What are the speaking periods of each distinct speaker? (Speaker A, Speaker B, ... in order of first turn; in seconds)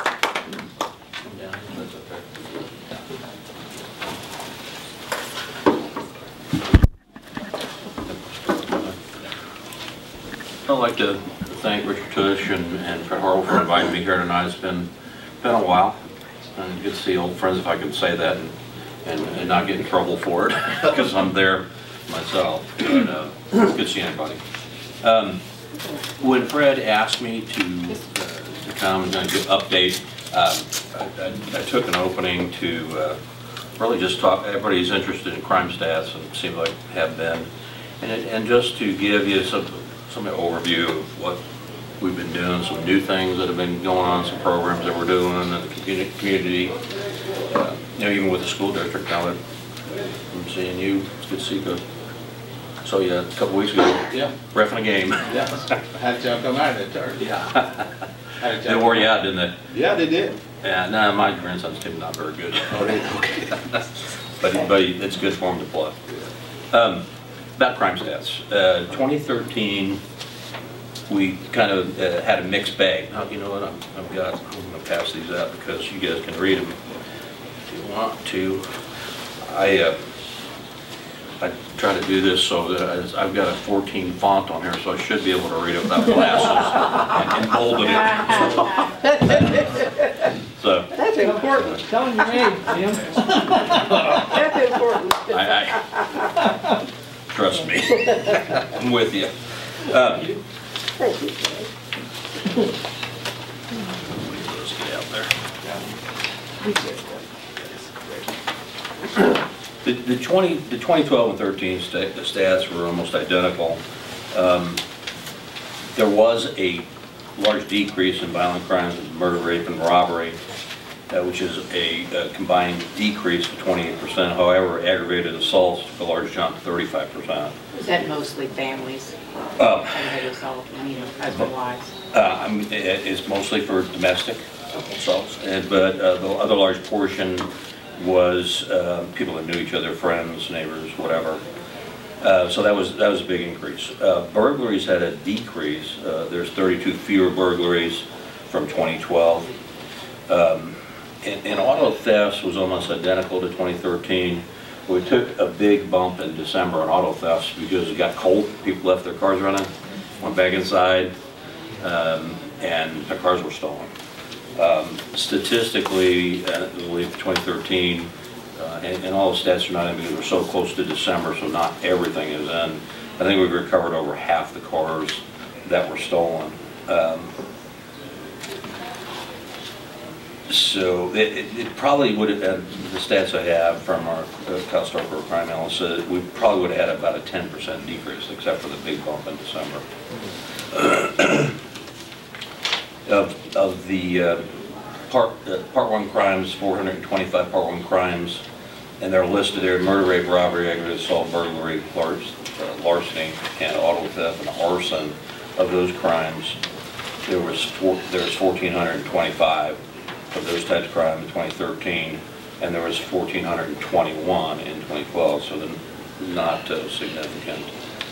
Speaker A: 1.3-2.6, 10.7-14.9, 15.4-16.0, 16.6-24.4, 25.0-25.4, 26.2-33.2, 33.8-37.5, 38.0-41.4, 42.0-46.8, 47.5-49.4, 50.3-51.8, 52.8-55.5, 57.2-57.9, 58.6-59.5, 60.6-63.1, 64.4-66.0, 66.7-67.0, 67.6-70.0, 71.1-76.8, 77.7-78.6, 79.4-80.0, 81.4-89.5, 90.6-90.9, 95.3-95.9, 97.3-100.3, 104.2-105.3, 109.8-113.8, 114.3-114.8, 116.0-120.4, 121.1-127.5, 129.6-130.2, 132.1-141.4, 142.2-149.5, 150.3-159.7, 160.2-161.1, 161.8-163.9, 164.6-177.3, 180.5-189.8, 190.7-191.6, 193.1-194.5, 195.1-198.4, 199.0-206.6, 207.3-209.8, 210.3-217.7
Speaker B: 55.3-57.2, 58.4-59.1, 59.7-60.4, 62.7-63.4, 106.7-107.0, 107.8-108.2
Speaker C: 89.1-89.8, 91.0-92.4, 93.5-95.7, 101.0-101.7
Speaker D: 91.2-94.2
Speaker E: 127.8-129.2, 129.9-131.9